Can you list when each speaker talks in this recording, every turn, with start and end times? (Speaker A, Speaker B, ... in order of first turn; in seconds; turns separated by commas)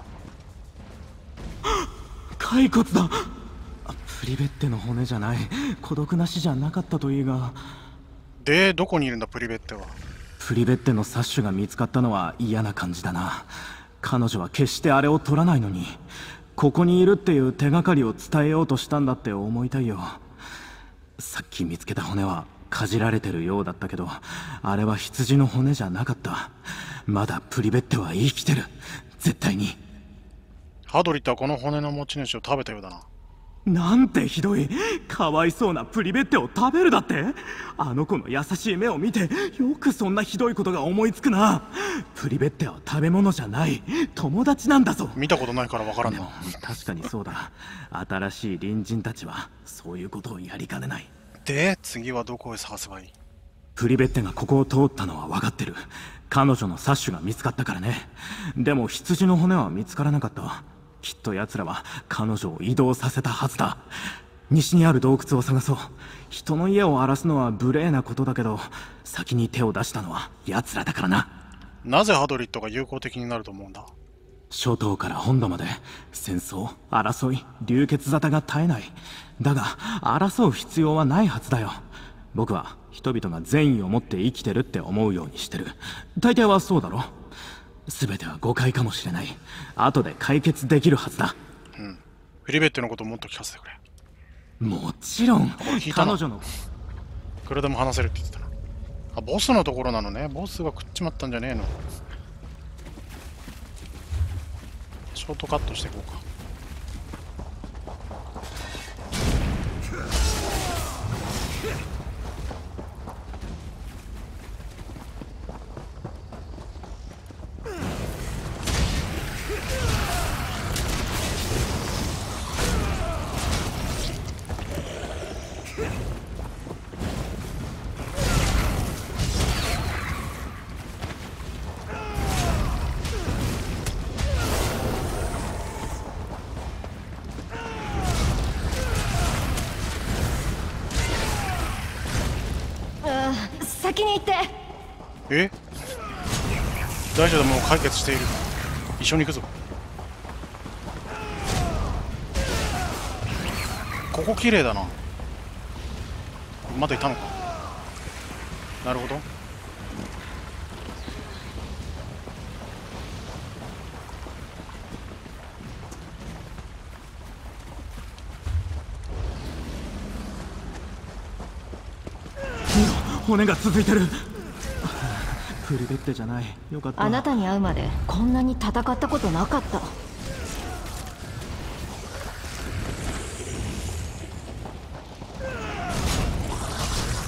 Speaker A: 2.4-3.3, Speaker A: 3.8-7.7, Speaker B: 8.4-10.0, Speaker A: 10.4-16.0, Speaker A: 16.6-20.2, Speaker A: 21.2-29.8, Speaker B: 30.9-33.1, Speaker A: 33.6-45.2, Speaker B: 45.1-46.3, Speaker A: 46.0-51.1, Speaker B: 51.4-53.1, Speaker A: 53.8-63.9, Speaker A: 64.5-71.3, Speaker B: 71.8-73.9, Speaker A: 74.5-87.2, Speaker A: 87.9-91.4, Speaker B: 91.8-93.8, Speaker A: 94.6-96.5, Speaker B: 95.6-96.2, Speaker B: 97.5-98.5, Speaker B: 99.1-101.8, Speaker B: 105.1-106.2, Speaker C: 143.0-144.5, Speaker B: 145.3-145.5, Speaker B: 147.1-148.4, Speaker B: 149.0-149.5, Speaker B: 154.1-154.9, Speaker B: 156.7-157.3, Speaker B: 158.8-159.2, Speaker A: 172.7-174.3, Speaker A: 174.8-177.3, Speaker C: 177.0-179.9